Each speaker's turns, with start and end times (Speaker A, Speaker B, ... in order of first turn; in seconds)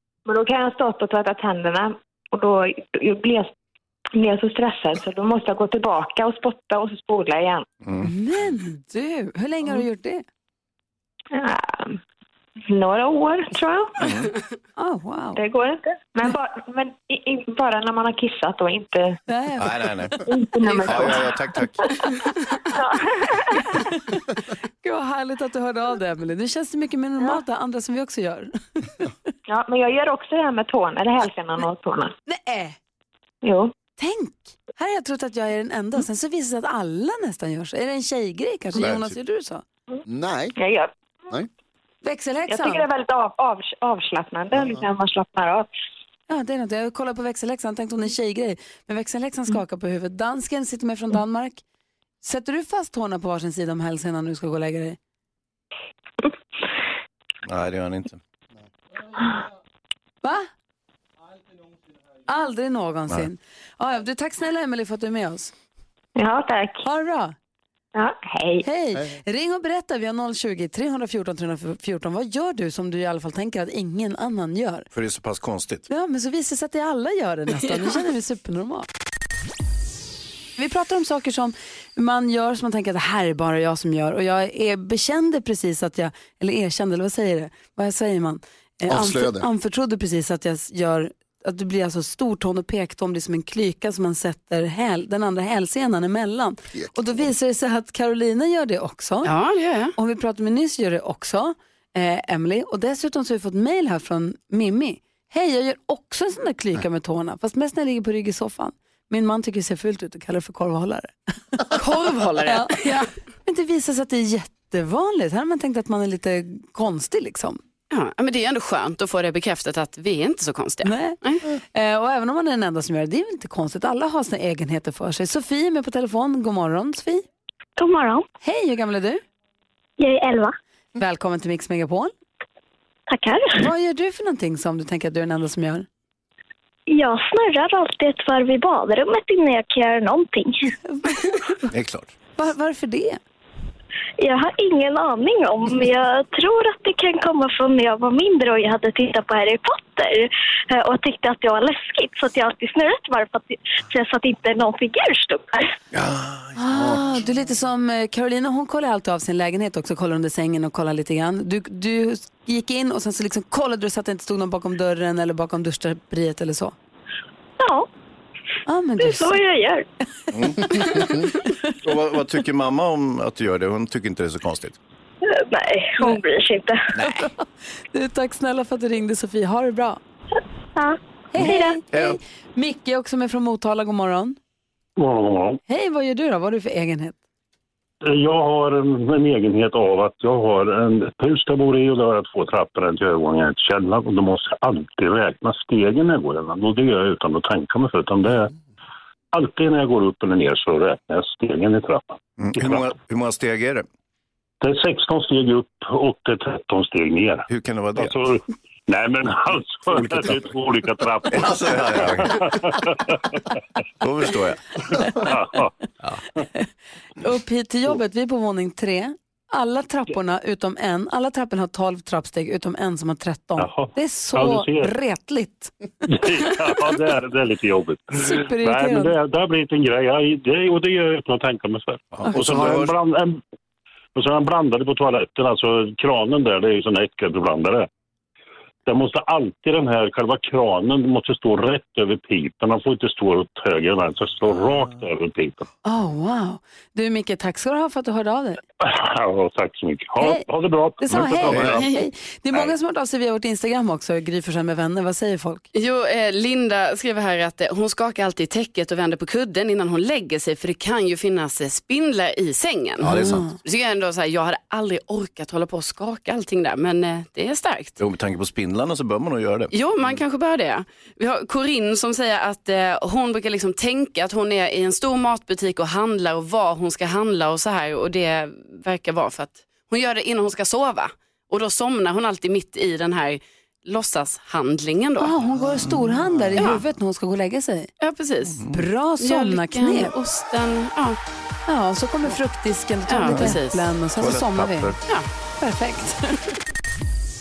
Speaker A: 0.3-3.5, 4.2-7.7, 11.3-12.0, 12.7-14.0, 15.4-19.2, 20.3-21.3, 22.8-23.7, 29.5-32.1, 33.4-33.7, 40.6-40.9, 42.5-45.7, 66.2-66.8, 68.0-68.6
Speaker B: 7.8-8.1, 14.0-14.3, 19.6-20.2, 20.8-21.8, 38.8-39.1, 57.5-58.2, 74.9-75.9, 141.7-142.1, 170.3-170.7, 171.8-174.8, 176.9-177.3, 181.4-182.2, 202.4-203.9, 207.5-208.2, 210.0-210.3, 211.3-212.5, 214.0-214.8, 232.1-232.9, 263.0-263.5, 268.0-269.7, 285.8-286.7, 293.3-293.6, 294.2-295.0
Speaker C: 8.0-10.2, 14.8-15.4, 19.3-20.3, 23.7-24.1, 24.8-29.1, 32.3-32.8, 34.0-39.6, 42.0-42.9, 46.3-51.6, 52.2-55.0, 62.3-65.5, 66.8-67.3, 68.6-74.9, 75.9-78.9, 80.6-99.3, 100.0-111.7, 112.4-112.9, 113.5-117.6, 120.8-127.2, 128.4-129.2, 131.0-132.1, 133.6-135.9, 141.0-141.4, 142.4-143.2, 156.6-166.8, 168.7-169.4, 170.7-171.3, 177.0-180.0, 181.3-184.4, 185.7-187.2, 217.2-225.7, 228.1-229.2, 245.8-248.6, 250.2-250.5, 251.0-255.7, 263.2-263.5, 285.2-287.9, 288.7-290.1, 291.7-295.0, 295.6-296.5
Speaker D: 20.6-21.1, 22.2-22.6, 99.2-99.9, 111.7-113.1, 117.9-121.4, 251.7-252.1, 255.8-268.0, 269.7-285.3, 286.6-286.8, 288.0-288.6, 289.2-291.2, 293.1-293.9
Speaker E: 40.1-40.5, 88.9-89.5, 96.7-97.2, 156.7-157.0
Speaker F: 127.8-128.2, 130.0-130.5, 133.1-133.6, 136.9-140.7, 144.2-155.7, 167.6-167.9, 169.0-169.9, 175.3-176.8, 180.8-181.8
Speaker G: 185.0-185.6, 188.1-198.5, 199.3-202.0, 204.6-207.4, 208.0-211.6, 212.2-212.5, 215.3-215.7, 223.6-224.9, 226.1-233.4, 234.2-237.9, 238.9-245.7, 248.9-251.8